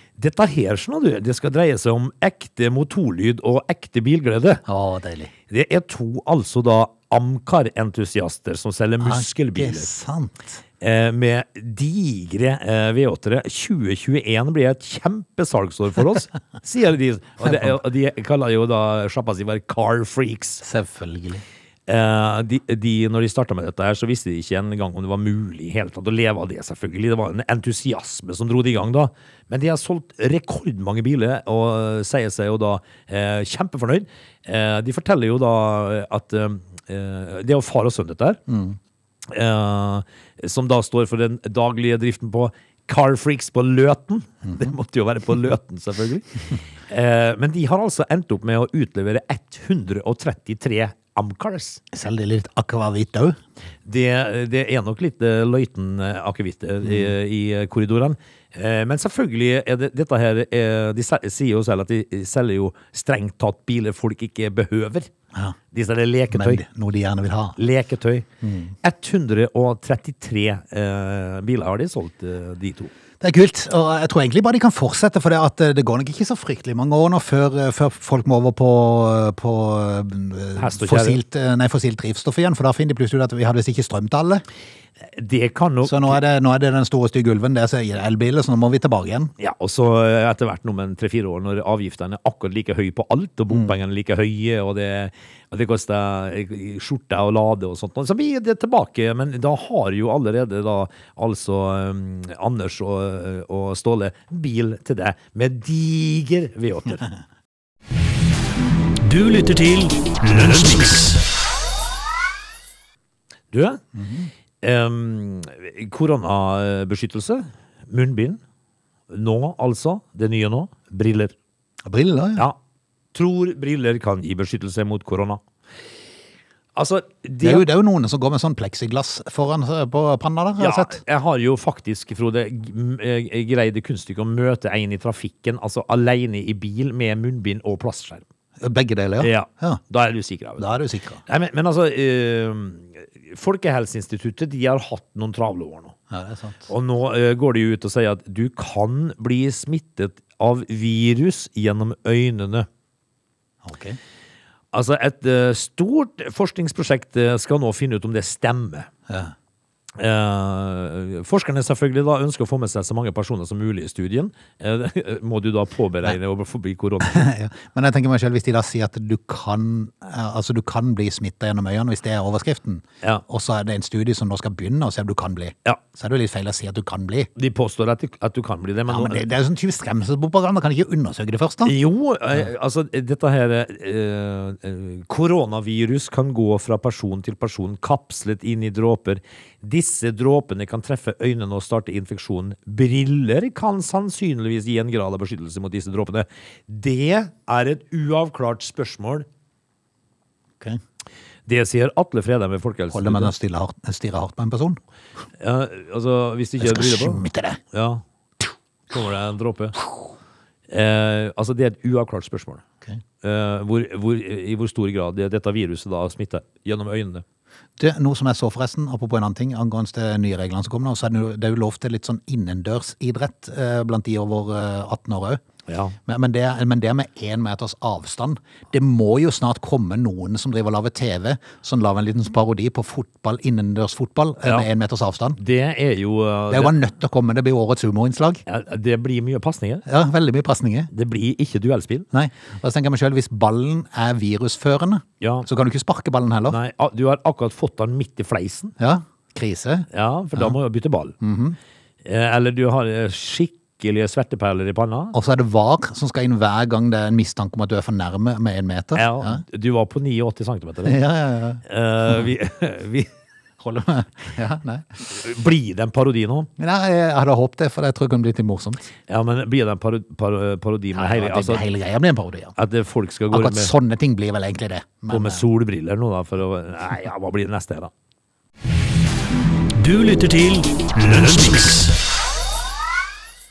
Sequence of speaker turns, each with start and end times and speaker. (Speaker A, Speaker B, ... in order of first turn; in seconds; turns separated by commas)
Speaker A: 0.2-4.6, Speaker B: 4.7-5.3, Speaker A: 5.5-9.9, Speaker B: 9.0-10.6, Speaker A: 10.8-20.6, Speaker B: 17.4-17.8, Speaker B: 20.6-21.4, Speaker A: 21.9-38.4, Speaker B: 38.5-38.8, Speaker A: 39.2-51.8, Speaker B: 51.9-53.4, Speaker A: 53.8-65.1, Speaker B: 56.8-57.1, Speaker A: 65.7-66.6, Speaker B: 66.3-67.6, Speaker A: 67.6-68.3, Speaker B: 68.4-68.7, Speaker A: 68.8-72.9, Speaker B: 73.2-84.4, Speaker A: 80.6-81.2, Speaker A: 85.0-86.2, Speaker B: 85.8-89.3, Speaker A: 89.4-107.0, Speaker C: 109.0-111.2, Speaker A: 113.5-113.8, Speaker B: 113.9-114.3, Speaker A: 114.6-118.4, Speaker A: 119.1-121.3, Speaker B: 121.8-122.5, Speaker A: 123.1-125.4, Speaker A: 126.7-127.7, Speaker B: 127.4-131.0, Speaker A: 130.6-138.2, Speaker B: 138.6-139.8, Speaker A: 139.2-140.7, Speaker B: 140.6-141.2, Speaker A: 141.2-145.9, Speaker B: 146.1-146.7, Speaker A: 146.7-152.7, Speaker B: 153.6-154.0, Speaker A: 154.7-158.9, Speaker A: 159.9-167.3, Speaker B: 167.0-177.3, Speaker A: 177.3-179.2, Speaker B: 178.9-181.7, Speaker A: 181.6-199.3, Speaker A: 201.4-203.3, Speaker B: 202.9-204.8, Speaker A: 205.4-208.0, Speaker B: 206.6-207.6, Speaker A: 208.9-209.8, Speaker A: 210.7-212.6, Speaker A: 213.2-217.2, Speaker B: 217.8-225.4, Speaker A: 225.7-225.9, Speaker B: 226.1-235.4, Speaker A: 235.4-236.8, Speaker B: 236.5-238.4, Speaker A: 238.5-239.8, Speaker B: 239.8-240.9, Speaker A: 240.9-242.1, Speaker B: 242.1-246.6, Speaker A: 245.2-245.5, Speaker A: 246.5-248.7, Speaker B: 248.8-250.5, Speaker A: 249.9-251.1, Speaker B: 251.2-251.6, Speaker A: 252.0-255.1, Speaker B: 255.1-259.4, Speaker A: 258.9-261.0, Speaker B: 260.8-261.6, Speaker A: 261.6-263.1, Speaker B: 263.6-265.0, Speaker A: 265.1-266.5, Speaker B: 266.6-268.8, Speaker A: 269.1-271.6, Speaker B: 270.9-272.5, Speaker A: 272.6-273.7, Speaker B: 273.3-275.5, Speaker A: 275.1-277.9, Speaker C: 279.8-281.9